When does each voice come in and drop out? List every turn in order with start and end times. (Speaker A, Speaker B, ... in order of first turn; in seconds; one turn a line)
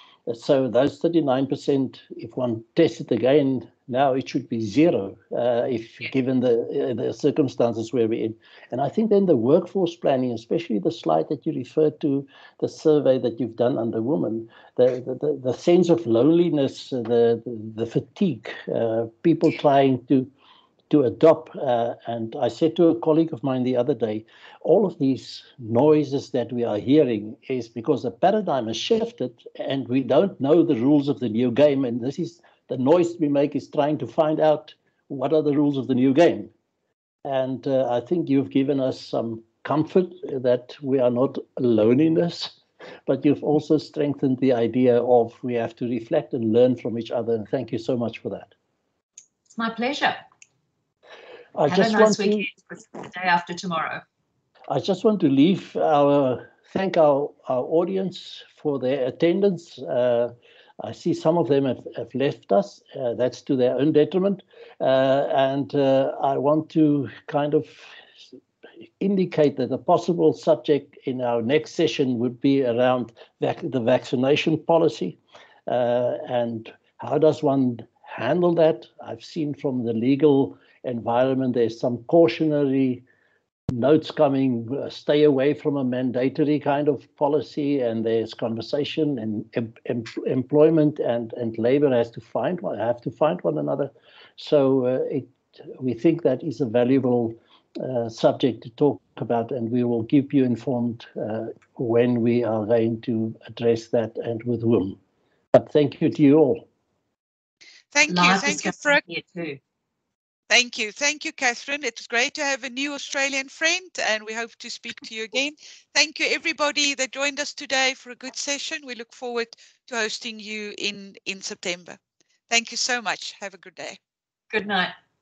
Speaker A: 0.3-20.3
Speaker A: 20.9-36.5
Speaker A: 37.2-48.5
Speaker B: 49.5-50.2
Speaker A: 51.5-52.5
Speaker B: 51.7-54.0
Speaker A: 54.7-67.9
Speaker A: 69.0-83.0
Speaker A: 83.7-105.0
Speaker A: 105.5-106.7
Speaker C: 107.9-109.0
Speaker B: 108.1-109.6
Speaker C: 110.5-124.0
Speaker B: 124.5-124.9